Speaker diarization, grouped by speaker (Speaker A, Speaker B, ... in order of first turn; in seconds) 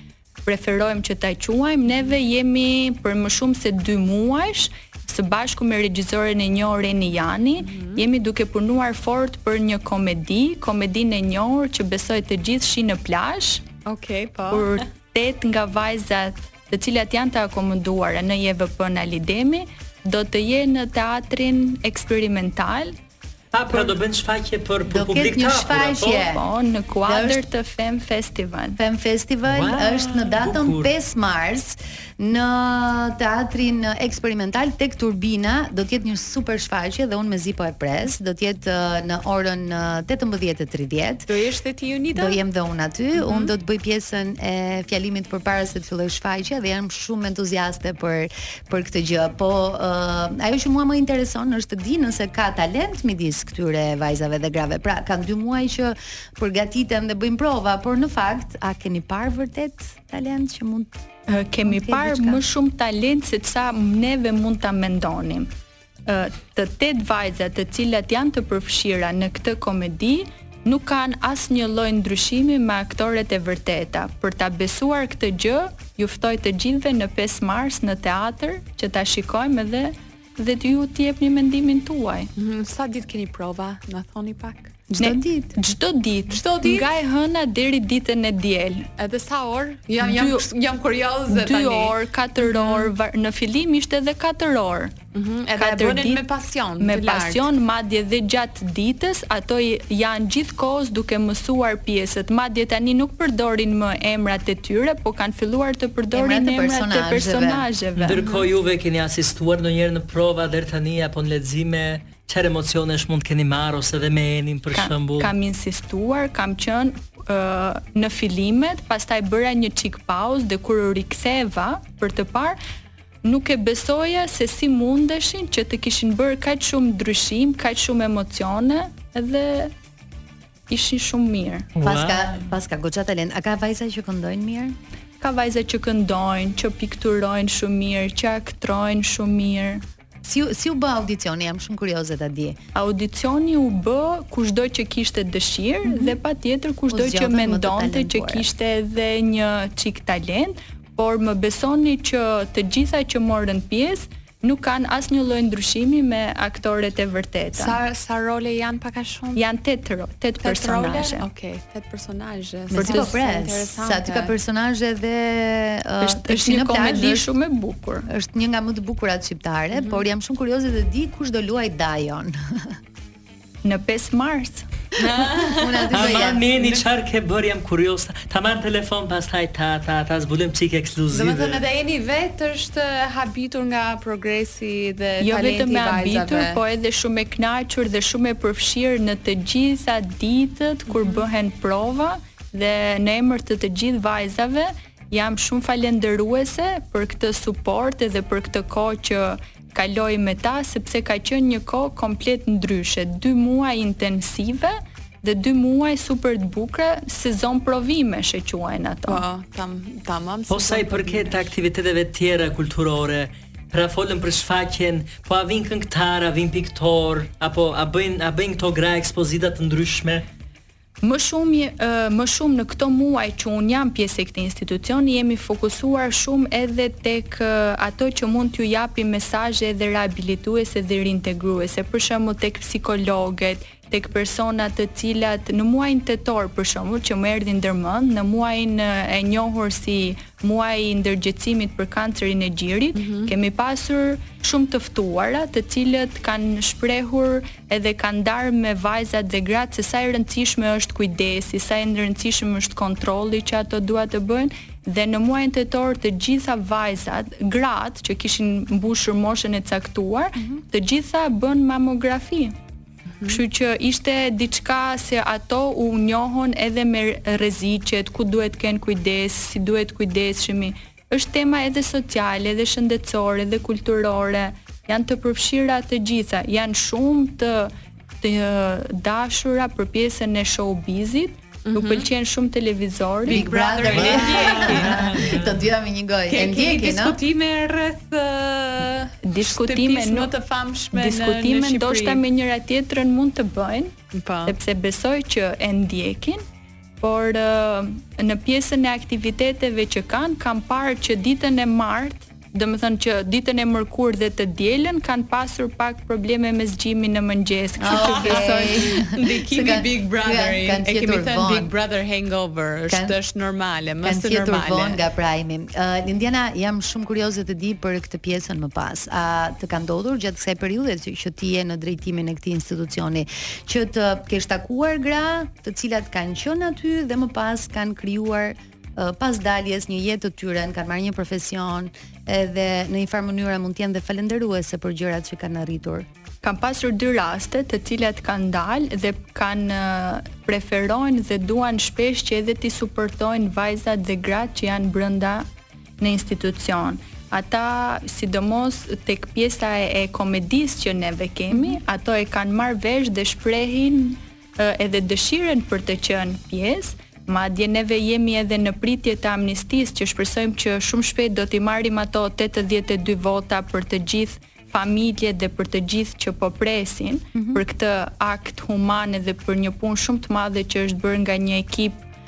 Speaker A: 0.4-13.6, 14.5-22.9, 26.3-28.8, 61.3-65.5, 66.0-82.3, 85.0-88.9, 90.0-90.5, 91.3-94.9, 95.5-96.2, 96.8-108.3, 114.7-122.6, 123.2-129.7, 130.7-131.7, 135.2-139.8, 142.7-157.8, 159.3-161.2, 166.0-168.1, 173.6-174.7, 185.2-209.2, 221.0-262.5, 263.3-283.7, 289.2-290.3, 290.9-296.4, 297.0-308.9, 336.4-345.4, 346.0-372.0
Speaker B: 7.6-8.0, 13.8-14.8, 41.3-42.4, 43.1-43.5, 82.4-84.7, 86.3-86.9, 89.0-92.9, 95.1-97.5, 157.5-159.4, 160.4-164.3, 169.7-170.0, 175.0-176.6, 181.1-186.6, 190.9-191.2, 209.1-211.5, 242.9-243.3, 281.6-282.1, 283.2-285.0, 286.3-292.2, 294.1-294.6, 307.9-315.0
Speaker C: 23.5-26.3, 29.5-30.9, 108.0-115.3, 131.8-132.3, 175.9-181.6, 210.5-220.2, 283.9-285.6
Speaker D: 24.9-26.4, 27.0-27.4, 28.8-41.3, 42.1-60.9, 61.6-62.4, 84.9-85.5, 106.1-107.7, 131.8-134.8, 140.2-142.6, 146.9-148.4, 162.7-167.3, 168.1-172.7, 175.6-176.4, 260.4-260.6, 283.3-287.2, 307.8-311.7, 312.9-313.1, 314.0-336.1, 351.5-351.8, 367.3-367.6